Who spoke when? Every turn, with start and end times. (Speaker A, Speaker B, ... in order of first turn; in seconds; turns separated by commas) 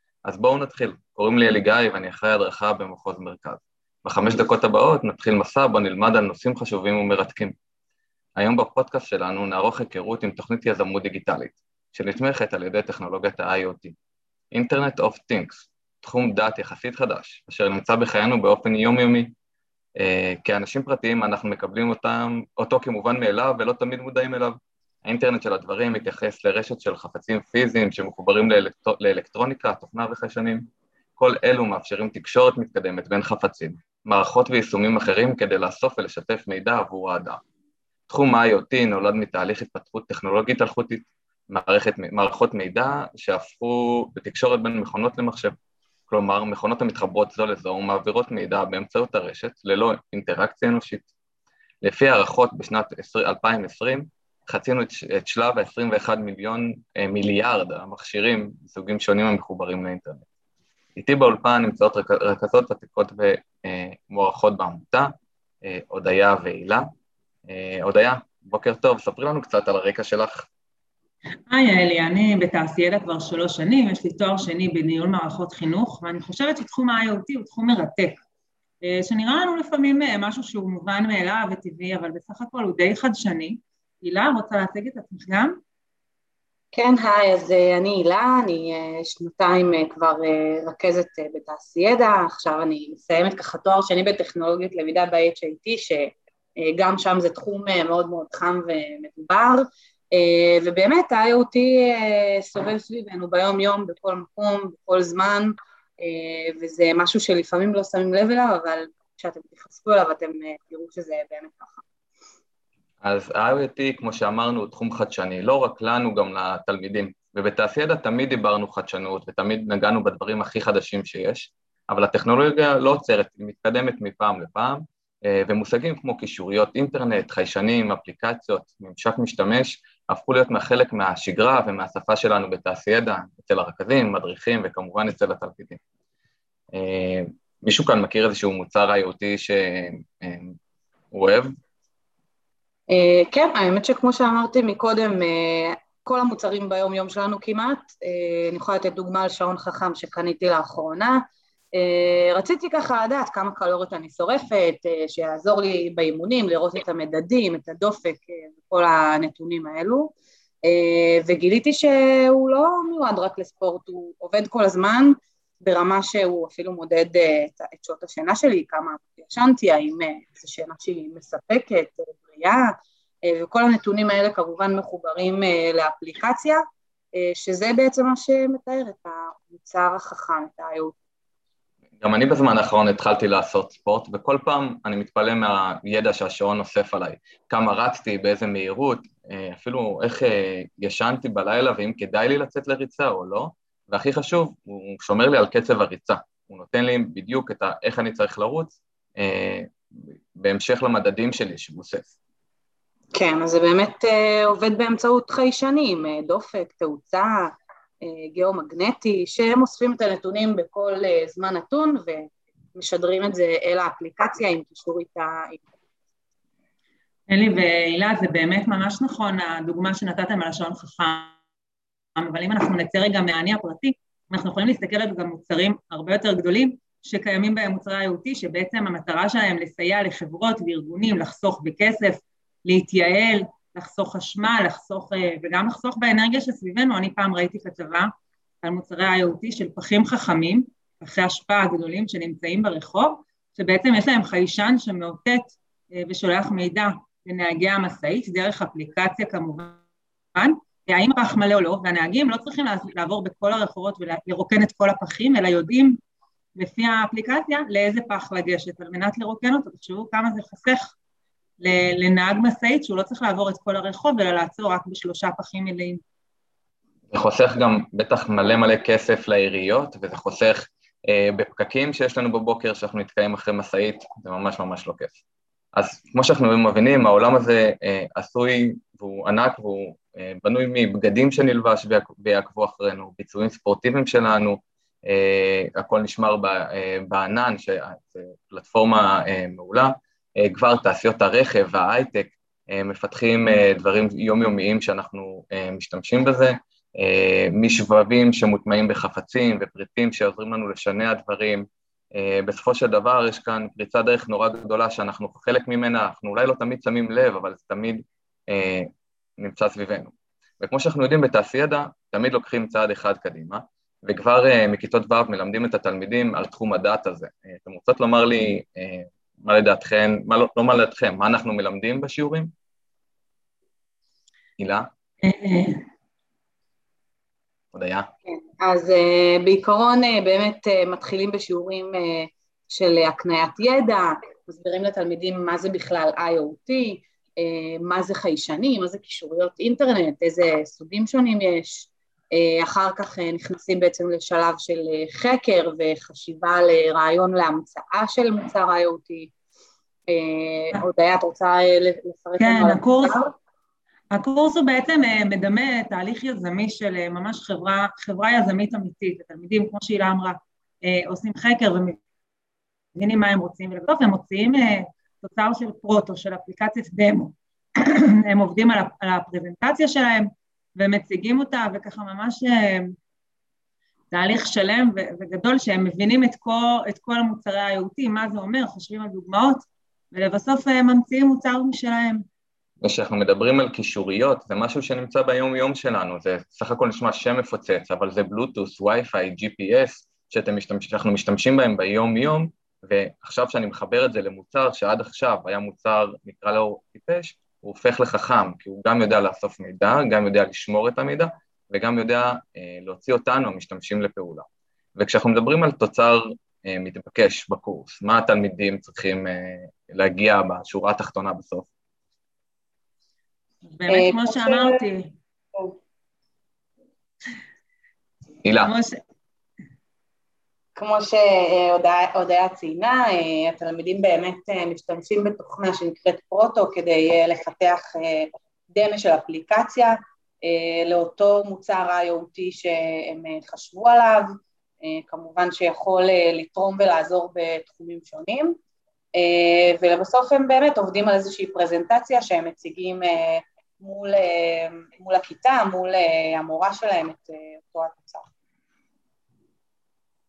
Speaker A: 0.3-7.5, Speaker A: 8.4-14.0, Speaker A: 14.5-19.3, Speaker A: 20.0-37.4, Speaker A: 38.1-45.6, Speaker A: 46.1-51.1, Speaker A: 51.8-60.3, Speaker A: 61.0-65.1, Speaker A: 65.6-66.9, Speaker A: 67.5-70.5, Speaker B: 71.5-78.2, Speaker B: 78.8-85.6, Speaker C: 86.7-111.8, Speaker A: 113.0-135.8, Speaker A: 136.7-140.6, Speaker A: 141.1-141.6, Speaker C: 142.9-151.2, Speaker C: 151.7-176.6, Speaker C: 177.1-180.9, Speaker A: 182.0-202.1, Speaker C: 203.1-215.7, Speaker B: 217.3-221.3, Speaker B: 222.2-238.1, Speaker B: 238.6-249.8, Speaker B: 250.3-256.0, Speaker B: 256.6-260.9, Speaker B: 261.6-266.0, Speaker A: 267.1-275.2, Speaker A: 275.7-322.5, Speaker A: 324.6-324.9, Speaker B: 325.2-325.9, Speaker A: 327.7-328.1, Speaker C: 328.3-349.3, Speaker C: 350.1-353.3, Speaker B: 352.4-353.2, Speaker B: 354.1-362.0, Speaker B: 362.9-372.9, Speaker B: 374.1-382.2, Speaker A: 382.8-411.7, Speaker B: 413.7-415.1, Speaker C: 413.9-414.8, Speaker A: 418.4-418.7, Speaker B: 418.6-419.0, Speaker C: 420.8-434.3, Speaker C: 434.8-438.6, Speaker C: 439.1-448.3